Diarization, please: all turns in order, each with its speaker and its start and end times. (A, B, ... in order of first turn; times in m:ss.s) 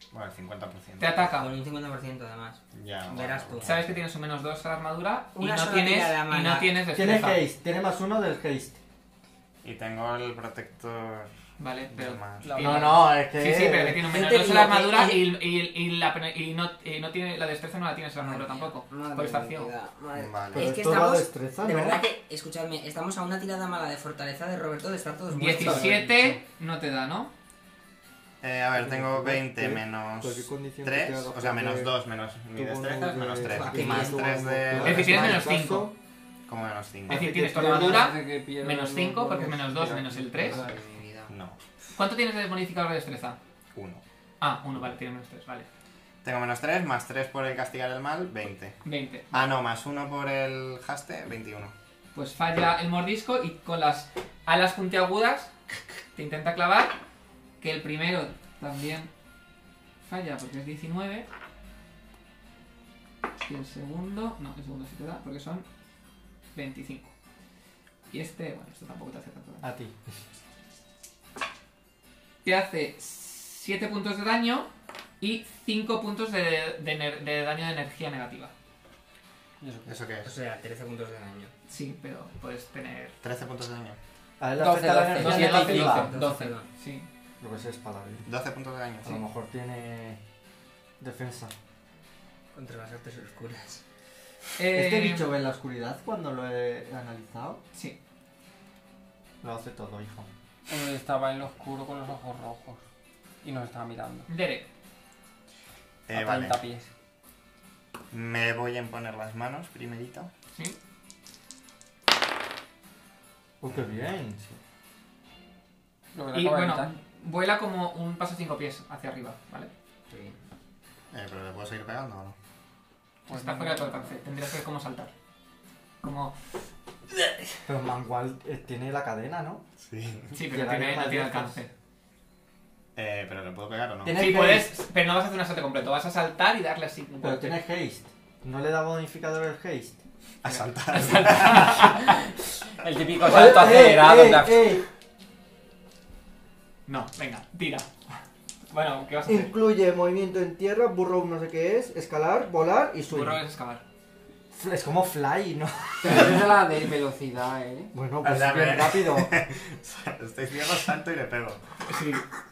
0:00.1-0:01.2 A
0:01.0-0:01.5 B
0:01.3-0:03.8 C
0:02.7-0:04.0 A
0:03.6-0:07.4 B
0:05.4-0:06.7 C
0:06.9-0:08.8 D
0:09.6-0:11.3 A
0:11.6-0:19.7 B
0:11.9-0:12.7 A
0:12.6-0:14.1 D
0:12.6-0:12.9 E
0:14.0-0:15.3 C
0:18.2-0:26.1 C
0:20.2-0:20.7 A
0:20.5-0:22.0 D
0:25.3-0:27.3 B
0:25.4-0:26.4 E
0:28.4-0:35.5 A
0:28.7-0:31.9 D
0:32.6-0:36.0 D
0:33.4-0:34.4 C
0:34.8-0:35.9 B
0:36.5-0:37.4 A
0:37.1-0:38.1 D
0:37.1-0:40.6 B
0:37.5-0:40.8 E
0:40.4-0:41.3 C
0:41.3-0:41.6 A
0:42.0-0:43.4 B
0:43.7-0:44.0 A
0:44.4-0:45.7 B
0:46.2-0:48.8 A
0:48.8-0:49.5 B
0:49.3-0:51.7 A
0:52.2-0:55.5 B
0:56.1-0:57.0 B
0:57.6-0:59.1 B
1:00.1-1:01.3 B
1:03.4-1:05.7 B
1:06.6-1:07.1 B
1:08.1-1:09.7 B
1:09.6-1:10.0 D
1:12.4-1:14.7 B
1:15.2-1:18.5 B
1:19.6-1:20.0 E
1:19.9-1:20.3 A
1:20.2-1:21.5 C
1:21.7-1:23.2 B
1:23.2-1:24.0 A
1:24.4-1:26.1 D
1:24.6-1:26.2 E
1:25.1-1:27.1 B
1:25.3-1:26.7 C
1:27.4-1:28.3 D
1:28.2-1:29.2 A
1:29.0-1:30.2 D
1:31.0-1:31.5 D
1:32.5-1:33.8 C
1:34.6-1:35.3 B
1:34.7-1:37.6 D
1:39.4-1:40.3 D
1:40.7-1:42.8 E
1:43.4-1:44.3 E
1:44.3-1:44.7 B
1:46.1-1:46.6 A
1:46.1-1:46.9 E
1:48.1-1:50.3 A
1:53.6-1:54.6 D
1:53.7-1:54.0 A
1:56.1-1:56.9 E
1:56.3-1:59.7 B
2:00.1-2:00.4 C
2:01.1-2:02.4 A
2:03.3-2:04.2 E
2:03.3-2:05.1 B
2:06.0-2:06.4 B
2:07.7-2:09.6 D
2:09.8-2:10.4 A
2:10.3-2:11.7 B
2:10.5-2:11.6 D
2:13.0-2:14.2 A
2:14.0-2:14.7 D
2:14.1-2:17.6 B
2:17.2-2:20.0 D
2:20.4-2:22.0 A
2:20.4-2:22.2 B
2:22.8-2:24.8 E
2:23.2-2:24.8 D
2:26.9-2:27.9 B
2:28.7-2:29.5 B
2:29.3-2:33.4 D
2:33.1-2:33.8 B
2:34.5-2:36.4 D
2:36.0-2:37.9 E
2:37.9-2:39.4 D
2:38.2-2:41.6 A
2:41.9-2:42.2 B